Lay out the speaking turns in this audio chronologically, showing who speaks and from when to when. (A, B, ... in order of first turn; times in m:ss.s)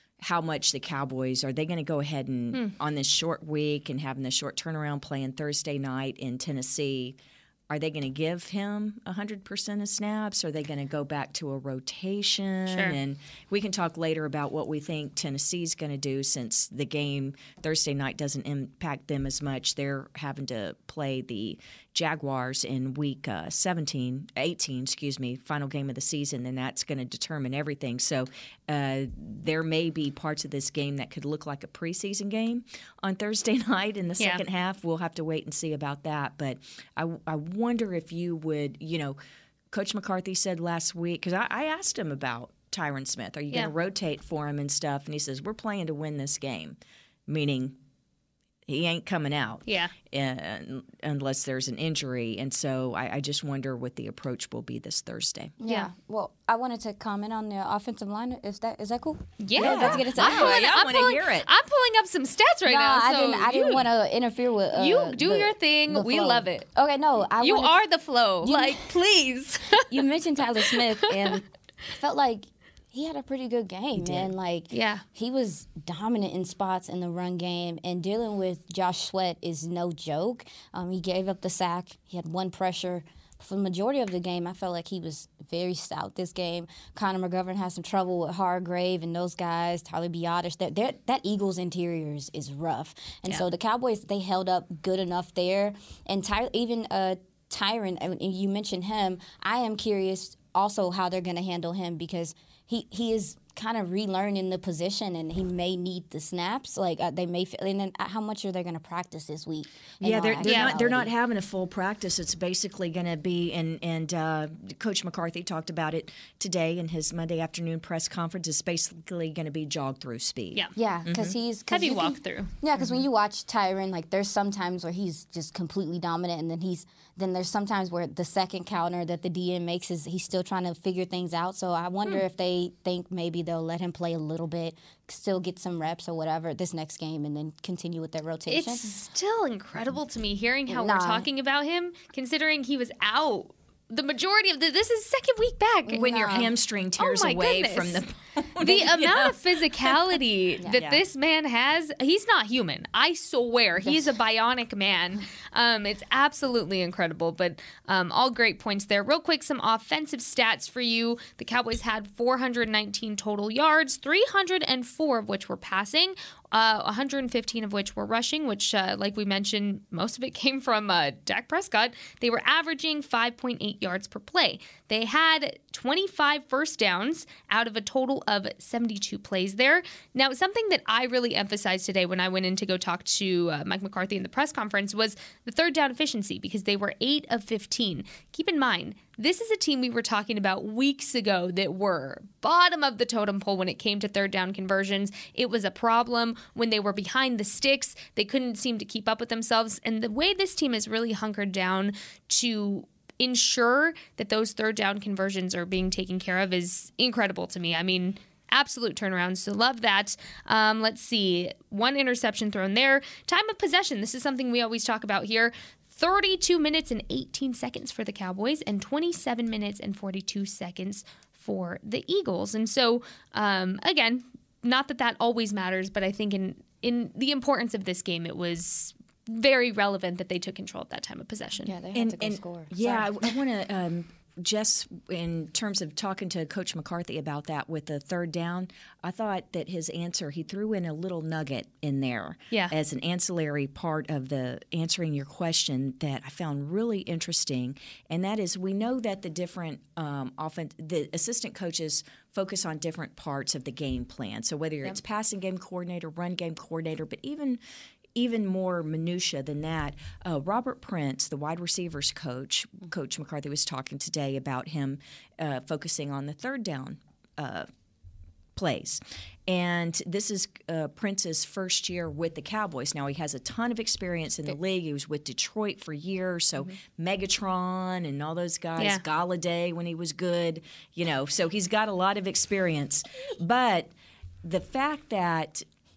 0:00.2-0:07.2 A
0:07.7-0:39.2 A
0:12.7-0:13.0 B
0:39.7-0:47.8 A
0:48.7-0:55.6 A
0:49.6-0:49.9 B
0:55.6-1:00.6 C
0:59.4-1:03.8 B
0:59.6-1:01.5 A
1:02.6-1:07.8 C
1:04.7-1:06.6 B
1:07.4-1:09.8 B
1:08.4-1:08.8 C
1:09.8-1:51.1 C
1:10.7-1:11.3 B
1:14.0-1:14.3 A
1:14.7-1:15.0 B
1:50.0-2:01.3 A
1:50.4-1:50.7 B
2:00.8-2:18.9 C
2:01.7-2:02.5 B
2:18.5-2:26.0 B
2:20.7-2:21.3 C
2:25.8-2:26.5 C
2:26.0-2:30.1 A
2:27.0-2:28.0 B
2:28.6-3:51.7 B
2:30.7-2:31.0 A
2:33.8-2:34.1 C
3:51.6-3:53.1 C
3:51.9-4:17.6 A
4:18.2-4:27.7 A
4:28.6-4:43.9 A
4:44.4-4:45.6 A